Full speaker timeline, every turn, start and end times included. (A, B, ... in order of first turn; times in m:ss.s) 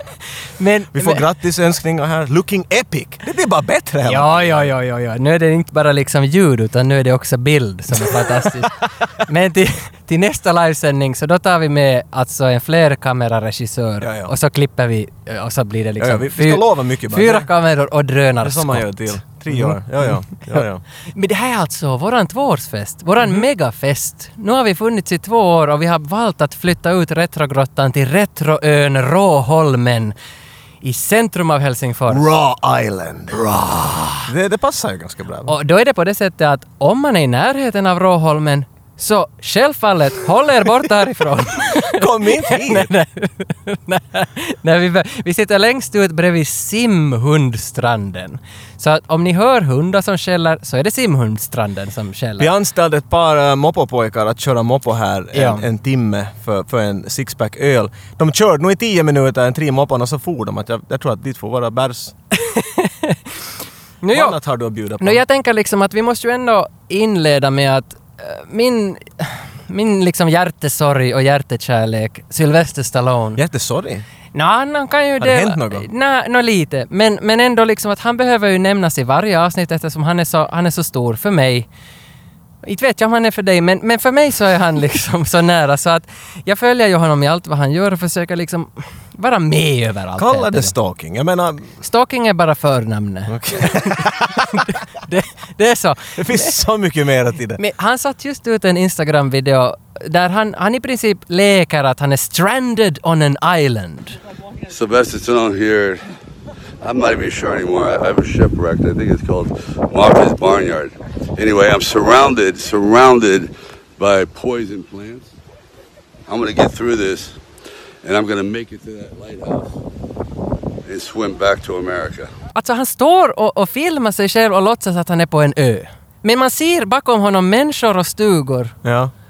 0:00.6-0:01.2 A
0:00.9-0:04.7 B
0:04.0-0:30.1 A
0:08.0-0:08.7 B
0:14.0-0:14.3 B
0:16.0-0:17.5 B
0:18.4-0:20.8 B
0:30.8-0:32.2 A
0:32.1-0:33.5 B
0:33.5-0:34.2 A
0:34.2-0:35.5 B
0:35.5-0:52.5 A
0:41.8-0:42.9 B
0:52.4-1:02.1 B
0:55.3-0:55.6 A
1:02.3-1:03.3 A
1:04.0-1:04.4 A
1:04.1-1:05.2 B
1:05.0-1:13.4 A
1:13.4-1:14.0 B
1:14.3-1:21.7 A
1:15.2-1:15.8 B
1:22.6-1:30.7 A
1:30.2-1:31.7 B
1:31.8-1:36.5 A
1:33.3-1:34.8 B
1:36.2-1:37.6 B
1:37.6-1:44.2 A
1:44.7-1:46.0 C
1:46.8-1:55.3 C
1:56.3-1:57.4 C
1:58.0-1:59.7 C
2:00.8-2:02.3 C
2:02.5-2:08.8 A
2:08.8-2:09.1 B